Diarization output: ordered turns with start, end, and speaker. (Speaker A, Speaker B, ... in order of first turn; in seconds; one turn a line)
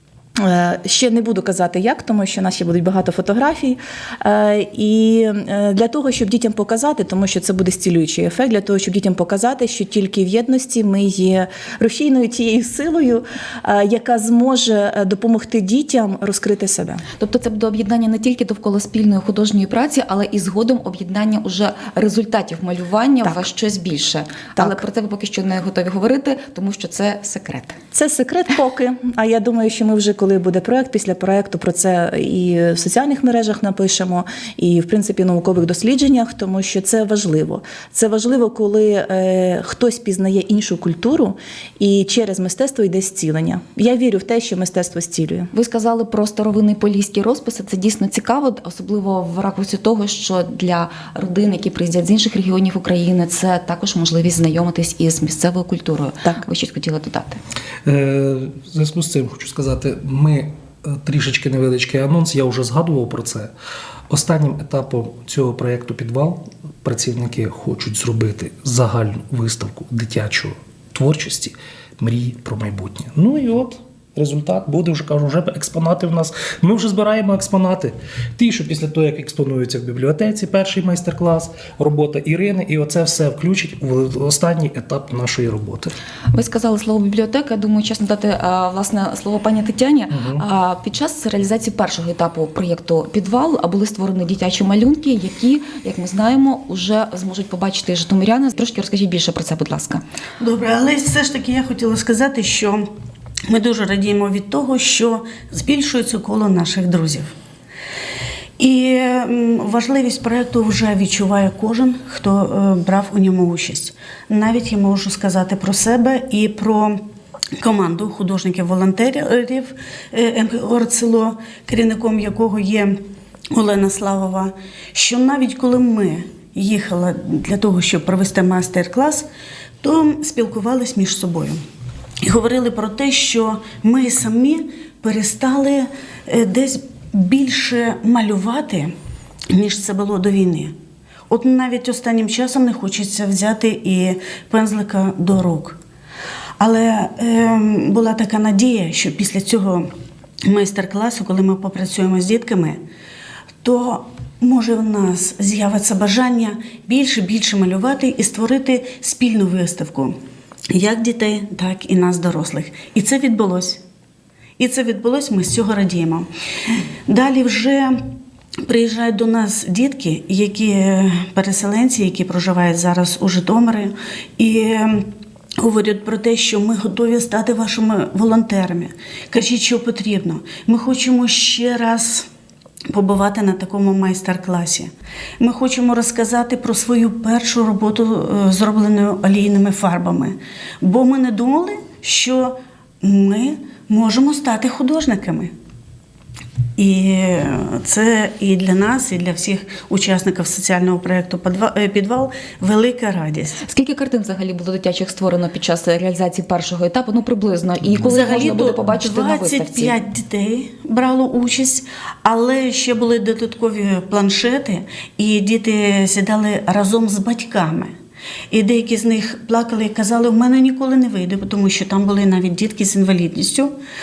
Speaker A: 0.4-17.0
Speaker B: 17.2-27.8
Speaker A: 27.9-45.5
Speaker B: 45.5-57.4
Speaker C: 57.9-63.5
Speaker C: 64.1-85.9
Speaker B: 86.3-100.0
Speaker C: 90.1-90.4
Speaker D: 100.4-102.9
Speaker D: 103.5-107.3
Speaker D: 108.6-117.0
Speaker D: 117.6-123.0
Speaker D: 123.5-129.3
Speaker D: 129.8-131.6
Speaker D: 132.2-138.9
Speaker D: 139.5-140.7
Speaker D: 141.3-145.8
Speaker D: 146.6-149.9
Speaker D: 150.4-152.8
Speaker D: 153.6-160.2
Speaker D: 160.7-163.8
Speaker D: 164.6-166.3
Speaker D: 167.1-168.0
Speaker D: 168.7-182.3
Speaker D: 182.9-195.5
Speaker D: 196.8-203.6
Speaker B: 203.6-209.9
Speaker D: 208.0-217.9
Speaker D: 218.5-223.7